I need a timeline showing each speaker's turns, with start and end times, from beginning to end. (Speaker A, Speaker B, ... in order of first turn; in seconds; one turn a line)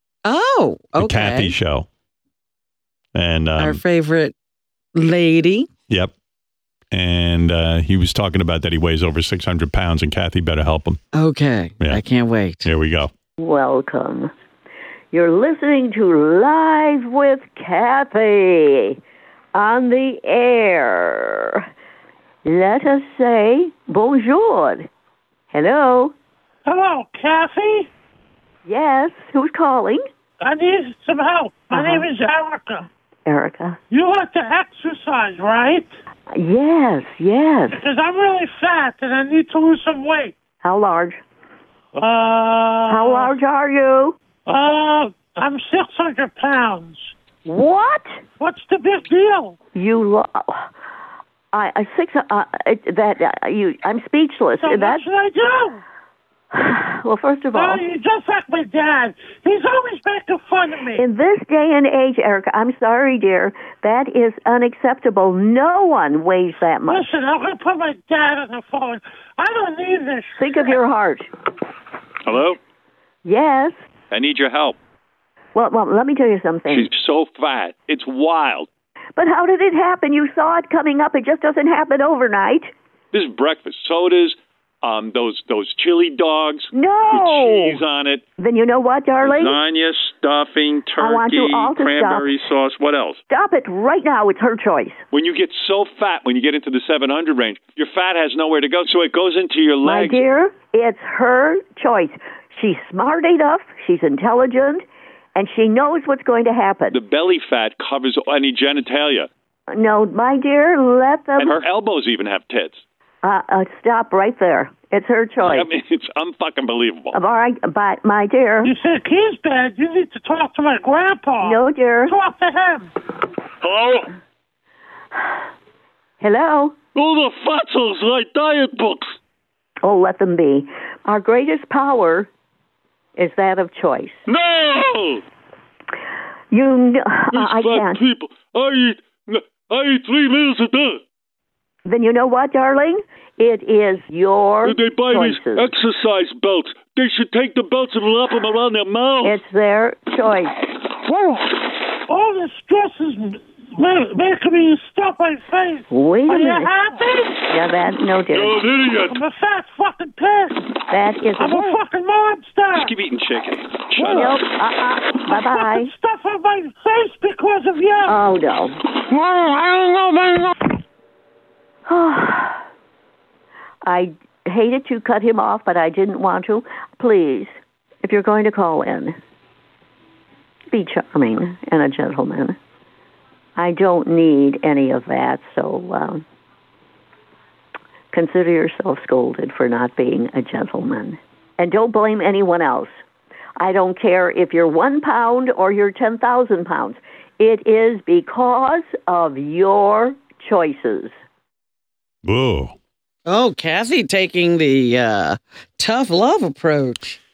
Speaker A: 0.2-1.5
Speaker B: 0.9-1.9
Speaker B: 3.1-3.8
Speaker A: 3.6-4.3
Speaker A: 4.9-5.7
Speaker B: 6.9-11.0
Speaker A: 11.1-12.6
Speaker B: 12.6-13.1
Speaker C: 13.4-14.3
Speaker C: 15.1-18.9
Speaker C: 19.5-21.6
Speaker C: 22.4-24.9
Speaker C: 25.5-26.1
Speaker D: 26.6-27.9
Speaker C: 28.6-30.0
Speaker D: 30.4-32.9
Speaker C: 31.7-32.1
Speaker C: 33.2-33.8
Speaker D: 33.9-35.9
Speaker C: 36.3-37.8
Speaker D: 37.7-40.3
Speaker C: 40.6-41.2
Speaker D: 41.9-43.3
Speaker C: 42.9-44.2
Speaker D: 44.5-47.1
Speaker C: 47.5-48.2
Speaker D: 48.4-49.6
Speaker C: 49.7-50.7
Speaker C: 51.5-55.0
Speaker D: 54.6-55.8
Speaker C: 56.5-57.8
Speaker D: 57.5-61.0
Speaker C: 61.0-67.1
Speaker D: 66.8-70.4
Speaker C: 70.4-71.3
Speaker E: 72.2-72.6
Speaker C: 73.2-73.7
Speaker E: 74.1-74.8
Speaker C: 75.5-76.9
Speaker E: 76.7-78.7
Speaker C: 79.2-82.7
Speaker E: 83.1-88.2
Speaker C: 86.7-87.8
Speaker C: 88.4-89.6
Speaker E: 89.2-93.2
Speaker C: 91.0-92.5
Speaker C: 93.3-95.0
Speaker E: 95.1-100.2
Speaker C: 99.8-104.8
Speaker C: 105.3-107.0
Speaker E: 106.9-109.3
Speaker C: 109.7-111.6
Speaker E: 111.4-112.8
Speaker C: 113.2-115.7
Speaker E: 115.4-117.2
Speaker C: 117.1-118.7
Speaker D: 118.6-122.9
Speaker C: 121.4-122.2
Speaker E: 123.6-124.1
Speaker C: 126.2-126.8
Speaker E: 126.9-129.1
Speaker C: 129.8-132.3
Speaker C: 133.2-134.2
Speaker E: 134.3-135.2
Speaker C: 136.5-138.0
Speaker E: 137.3-141.0
Speaker C: 141.8-145.7
Speaker E: 144.6-149.4
Speaker C: 149.2-150.6
Speaker D: 152.1-157.4
Speaker C: 155.9-156.7
Speaker C: 157.5-158.6
Speaker E: 158.3-159.2
Speaker D: 159.1-160.7
Speaker C: 160.9-161.8
Speaker D: 161.4-162.9
Speaker E: 162.7-164.4
Speaker C: 164.1-165.9
Speaker D: 165.2-168.2
Speaker C: 168.1-168.8
Speaker D: 169.1-170.7
Speaker C: 171.9-172.6
Speaker C: 173.8-179.1
Speaker C: 180.7-182.6
Speaker C: 183.6-186.2
Speaker C: 188.1-192.9
Speaker C: 193.6-201.1
Speaker B: 202.2-202.7
Speaker A: 203.3-207.1